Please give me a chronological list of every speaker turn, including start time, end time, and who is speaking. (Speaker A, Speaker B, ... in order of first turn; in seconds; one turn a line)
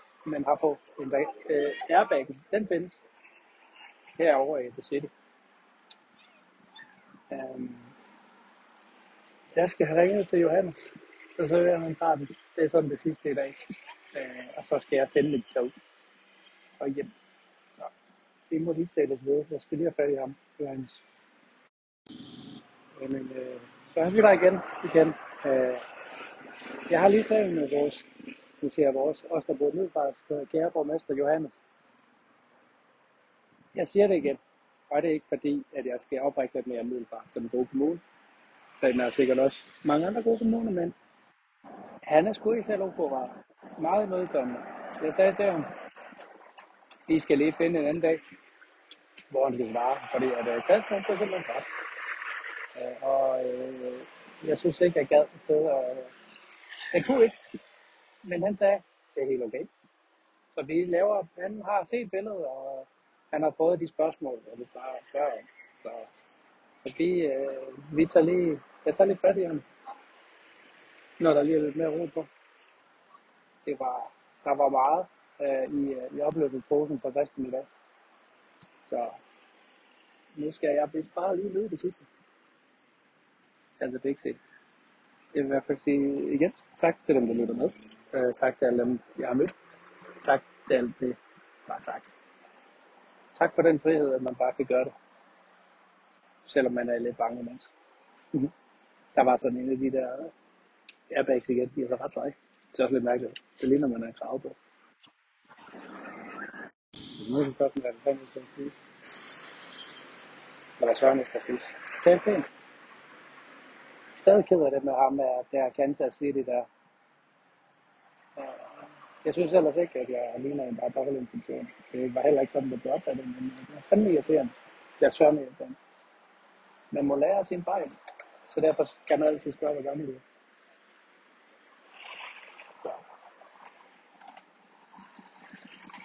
Speaker A: 0.2-3.0
Speaker A: 4.2-5.1
Speaker A: 7.3-7.9
Speaker A: 9.6-13.6
Speaker A: 14.1-15.7
Speaker A: 16.8-17.1
Speaker A: 18.5-21.0
Speaker A: 23.0-25.8
Speaker A: 26.9-28.1
Speaker A: 28.6-31.6
Speaker A: 33.8-34.4
Speaker A: 34.9-38.0
Speaker A: 38.8-40.9
Speaker A: 42.1-45.7
Speaker A: 47.1-48.2
Speaker A: 49.3-51.6
Speaker A: 52.8-56.1
Speaker A: 56.9-57.4
Speaker A: 58.2-59.7
Speaker A: 60.5-66.1
Speaker A: 66.8-69.6
Speaker A: 71.2-72.3
Speaker A: 73.7-77.7
Speaker A: 78.9-79.2
Speaker A: 80.4-82.0
Speaker A: 83.8-84.4
Speaker A: 85.3-89.5
Speaker A: 90.2-92.1
Speaker A: 93.4-94.9
Speaker A: 96.5-97.7
Speaker A: 99.1-100.3
Speaker A: 101.1-104.5
Speaker A: 107.2-108.8
Speaker A: 110.8-112.5
Speaker A: 114.2-116.7
Speaker A: 118.4-125.8
Speaker A: 126.9-128.0
Speaker A: 128.5-130.2